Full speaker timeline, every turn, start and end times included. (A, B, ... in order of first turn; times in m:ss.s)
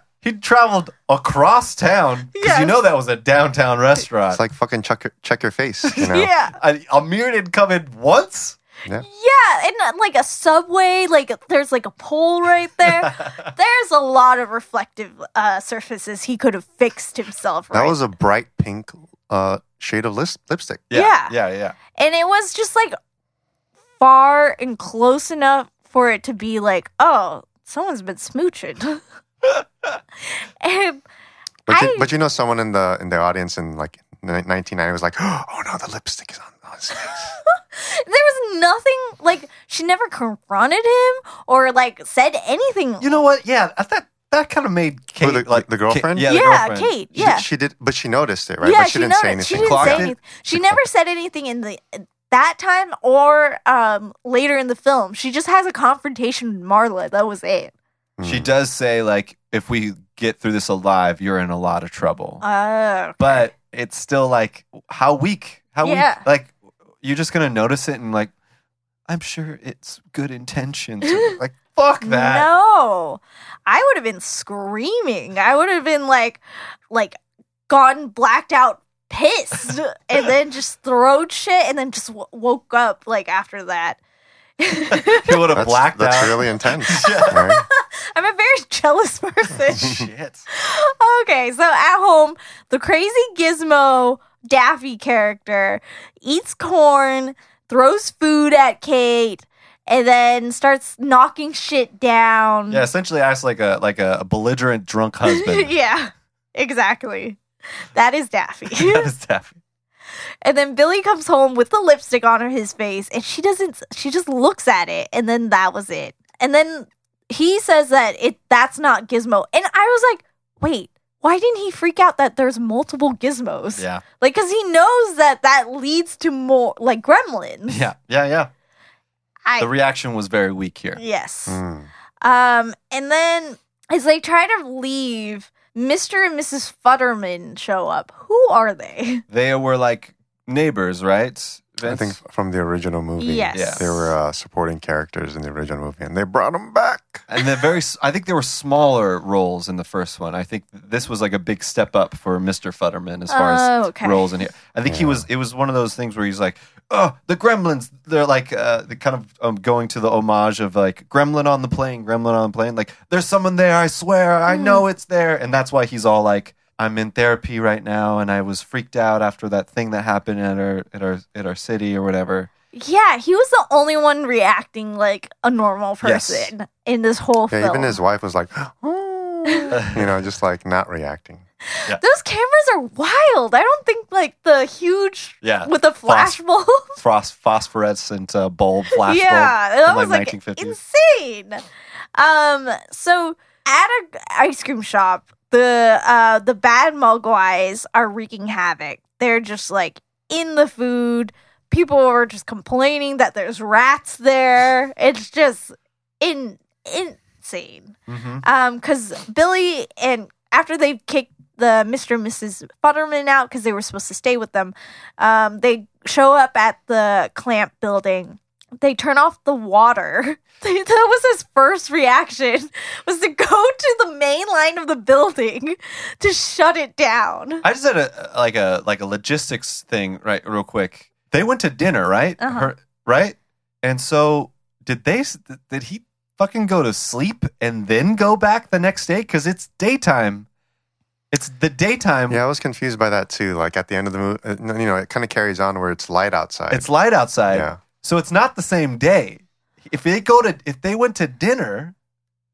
0:00.2-0:04.4 A
0:02.3-0:02.8 B
0:04.3-0:06.3 C
0:05.9-0:08.6 A
0:06.0-0:06.5 B
0:09.0-0:18.0 B
0:12.8-0:13.5 A
0:17.7-0:20.9 C
0:20.9-0:21.8 A
0:20.9-0:21.3 B
0:21.9-0:22.9 B
0:24.0-0:29.0 B
0:30.6-0:31.0 B
0:31.7-0:37.3 C
0:31.7-0:32.1 B
0:37.4-0:43.2 B
0:43.0-0:47.0 A
0:45.2-0:46.4 C
0:46.2-0:47.4 B
0:47.1-0:50.1 C
0:48.6-0:57.7 B
0:49.5-0:50.6 A
0:58.2-0:58.5 C
0:58.2-1:02.4 A
1:02.4-1:03.5 B
1:03.2-1:08.3 A
1:05.8-1:06.2 B
1:09.1-1:12.5 A
1:12.0-1:17.2 B
1:17.7-1:24.0 B
1:24.6-1:25.4 B
1:25.0-1:27.4 A
1:25.5-1:27.6 C
1:27.0-1:30.0 B
1:29.7-1:30.4 A
1:29.8-1:30.0 C
1:30.5-1:42.8 B
1:42.7-1:45.7 A
1:45.3-1:47.4 B
1:47.9-1:49.1 B
1:48.7-1:49.6 A
1:50.4-2:07.8 B
2:03.8-2:04.0 A
2:07.7-2:08.5 A
2:09.6-2:11.0 A
2:11.0-2:11.6 B
2:11.5-2:11.9 C
2:12.2-2:19.2 B
2:19.3-2:22.2 A
2:21.8-2:27.3 C
2:23.2-2:23.9 B
2:23.5-2:24.1 A
2:27.3-2:52.5 A
2:33.3-2:34.3 B
2:34.8-2:35.2 C
2:44.5-2:44.8 B
2:52.7-2:58.0 B
2:56.0-2:56.5 A
2:57.5-3:01.4 C
2:59.5-2:59.7 B
2:59.7-3:00.1 A
3:01.8-3:07.0 B
3:05.4-3:10.8 A
3:08.9-3:11.6 B
3:12.2-3:47.6 B
3:28.1-3:28.4 A
3:47.6-4:00.4 A
3:52.4-3:52.7 B
4:01.3-4:02.4 A
4:02.3-4:06.9 C
4:06.7-4:11.9 A
4:07.5-4:07.8 C